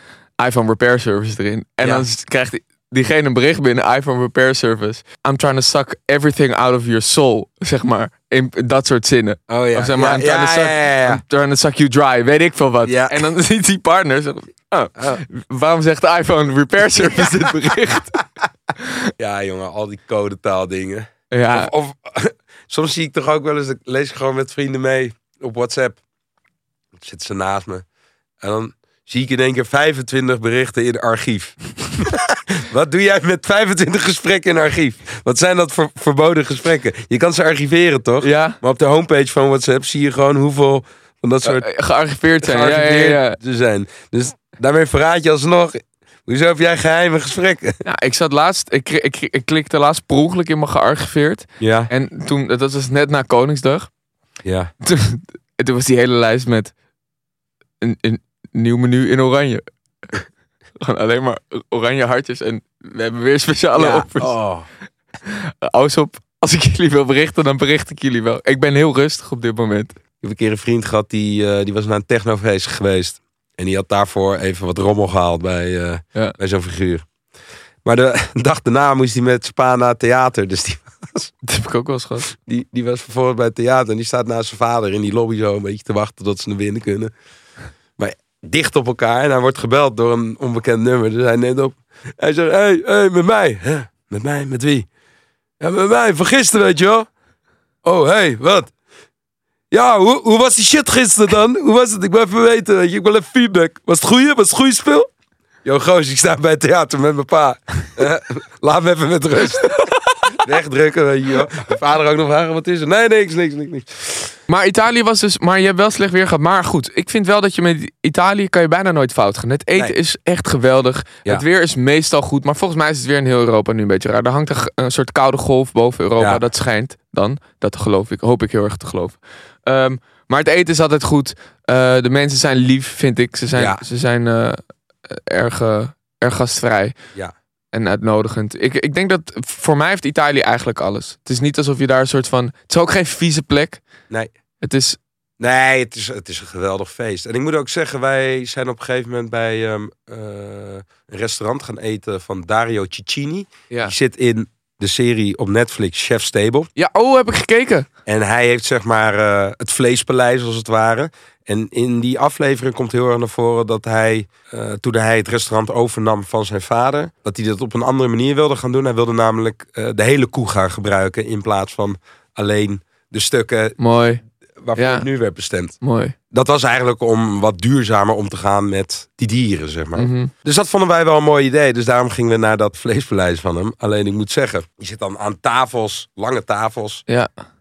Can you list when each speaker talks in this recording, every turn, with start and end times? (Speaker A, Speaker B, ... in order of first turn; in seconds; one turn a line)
Speaker A: 0.4-18.2
Speaker B: 1.8-2.1
Speaker B: 9.5-11.2
Speaker B: 12.8-13.2
Speaker B: 15.0-15.2
Speaker B: 17.1-17.5
Speaker B: 19.2-26.0
Speaker A: 21.3-21.7
Speaker B: 27.0-27.8
Speaker B: 28.4-41.7
Speaker A: 38.2-38.6
Speaker A: 41.4-43.4
Speaker B: 42.4-47.8
Speaker A: 47.9-53.9
Speaker B: 51.6-51.9
Speaker B: 54.4-54.7
Speaker A: 54.8-56.7
Speaker A: 57.8-59.6
Speaker A: 60.8-64.4
Speaker B: 63.8-64.7
Speaker A: 65.2-70.0
Speaker B: 70.2-77.0
Speaker B: 77.8-81.3
Speaker A: 81.4-82.3
Speaker B: 82.3-87.1
Speaker B: 88.0-94.9
Speaker B: 95.6-97.1
Speaker B: 97.8-98.7
Speaker B: 99.7-105.1
Speaker B: 105.6-109.8
Speaker A: 109.6-110.3
Speaker B: 110.3-114.3
Speaker A: 114.5-137.0
Speaker B: 133.5-133.8
Speaker A: 137.7-143.8
Speaker A: 144.6-145.0
Speaker B: 145.4-156.7
Speaker A: 156.8-157.9
Speaker B: 158.1-173.8
Speaker A: 173.8-174.2
Speaker B: 174.6-175.8
Speaker A: 174.8-175.1
Speaker A: 175.8-176.2
Speaker B: 176.3-187.0
Speaker A: 179.9-180.3